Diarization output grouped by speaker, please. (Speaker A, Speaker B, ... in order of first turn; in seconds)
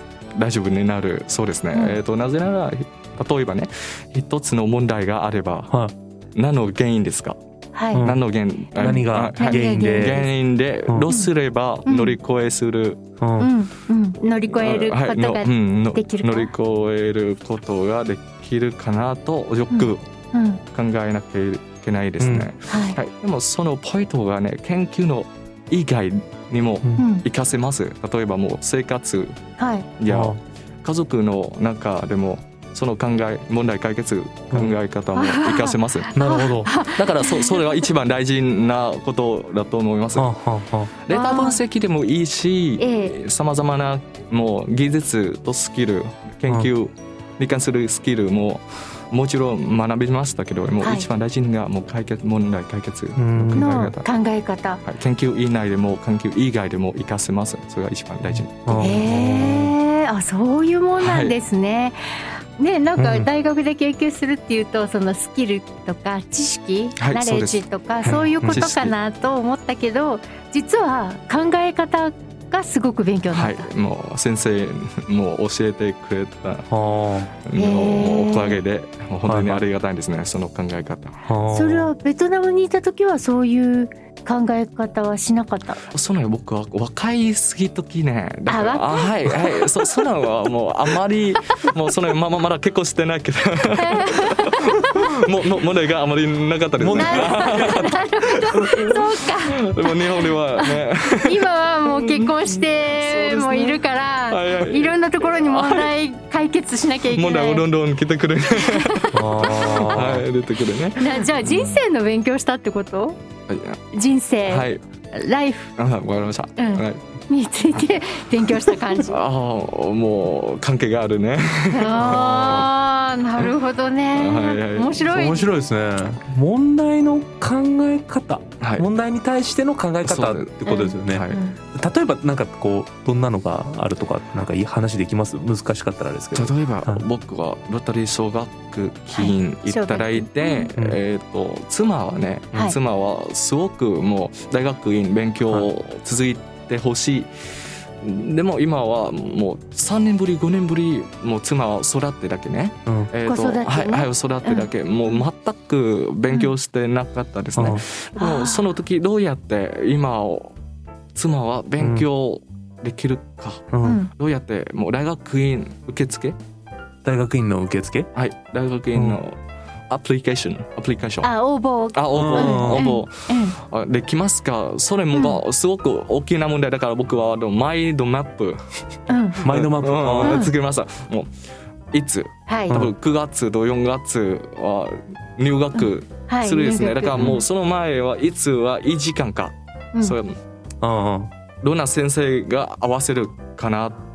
Speaker A: 0.4-5.8, 6.3-7.4, 8.0-13.0, 14.5-20.1, 20.7-29.4, 30.0-36.1, 36.9-40.3, 40.9-54.1, 54.9-59.1, 61.0-61.4, 67.0-68.9, 73.3-76.7, 77.4-81.2, 85.9-105.9, 107.1-111.8, 113.5-113.8, 114.5-114.8, 115.8-117.0, 118.5-122.7, 124.1-125.1, 128.6-128.9, 130.0-131.4, 136.3-147.3, 148.0-160.6, 161.2-166.4, 168.1-169.4, 169.9-171.3, 171.9-178.6, 179.4-181.3, 181.9-190.4, 191.6-194.0
Speaker B: 1.7-2.0, 7.7-8.1, 8.9-10.3, 11.9-12.2, 13.4-16.5, 19.7-20.6, 22.7-23.0, 27.0-27.2, 29.6-29.9, 35.1-37.9, 41.1-41.6, 42.8-43.2, 50.8-51.1, 53.5-54.9, 58.8-62.0, 62.6-73.7, 77.6-78.6, 81.5-85.9, 88.5-90.0, 93.8-95.3, 97.0-107.7, 108.6-110.0, 111.0-113.2, 113.9-115.7, 116.6-119.2, 121.7-125.5, 130.7-131.6, 139.2-140.7, 153.2-155.2, 156.3-156.5, 158.2-158.7, 163.8-164.1, 171.2-173.6, 175.1-175.4, 179.1-179.5, 180.2-180.5, 182.5-182.8, 185.8-187.4
Speaker C: 8.0-8.2, 8.8-10.2, 10.9-11.1, 13.2-13.5, 22.2-22.5, 30.1-30.4, 34.5-34.8, 36.1-36.7, 40.1-40.9, 53.2-53.7, 58.3-59.8, 63.0-63.3, 68.4-68.7, 76.7-77.3, 79.2-79.6, 81.3-81.9, 96.8-97.8, 109.1-110.2, 125.0-137.1, 140.8-141.0, 152.9-153.1, 157.6-157.8, 161.8-162.1, 163.7-164.0, 167.1-168.1, 168.9-169.2, 172.1-172.9, 179.4-180.5, 190.8-191.3